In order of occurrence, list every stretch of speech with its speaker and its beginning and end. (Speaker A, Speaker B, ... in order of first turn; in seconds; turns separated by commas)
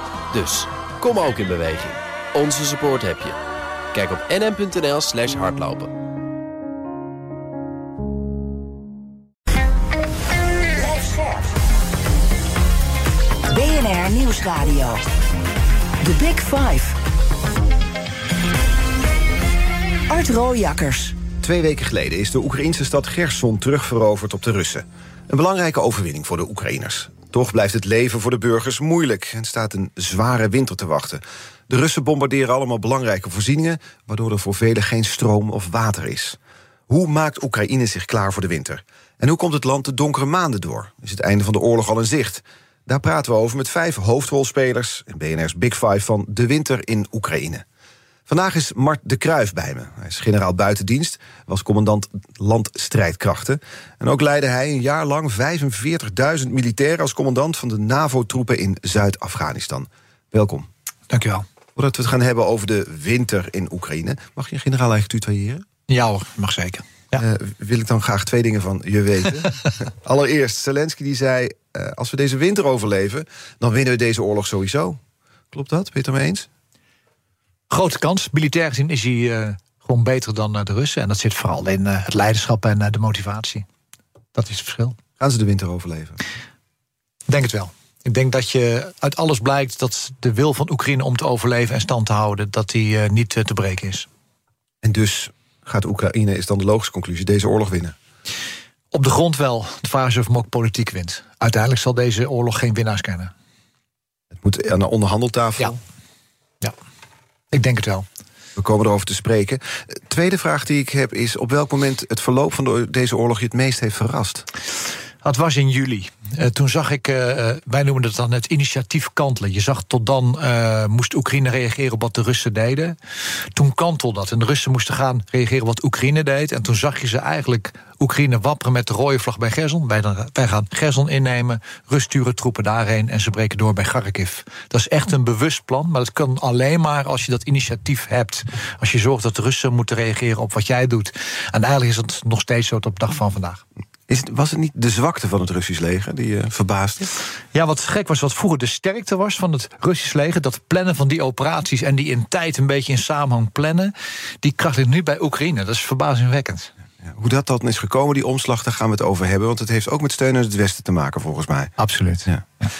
Speaker A: 0.3-3.4, Speaker A: 3.9-5.9, Speaker B: 10.7-11.5, Speaker B: 13.5-15.0, Speaker B: 16.0-17.0, Speaker B: 20.1-21.2, Speaker C: 21.4-36.4, Speaker C: 36.9-47.6, Speaker C: 48.3-60.7, Speaker D: 61.1-61.5, Speaker C: 61.8-65.7, Speaker D: 65.9-67.2, Speaker C: 67.1-75.0, Speaker C: 75.5-76.5, Speaker D: 77.7-83.7, Speaker D: 84.3-85.0, Speaker C: 85.2-86.2, Speaker D: 87.3-94.1, Speaker C: 94.8-98.0, Speaker D: 98.9-103.3, Speaker C: 104.4-105.8, Speaker D: 107.5-108.1, Speaker C: 108.6-114.5, Speaker D: 115.2-123.0, Speaker D: 123.5-143.6, Speaker C: 144.1-147.1, Speaker D: 147.5-156.7, Speaker C: 157.0-161.7, Speaker D: 161.8-162.7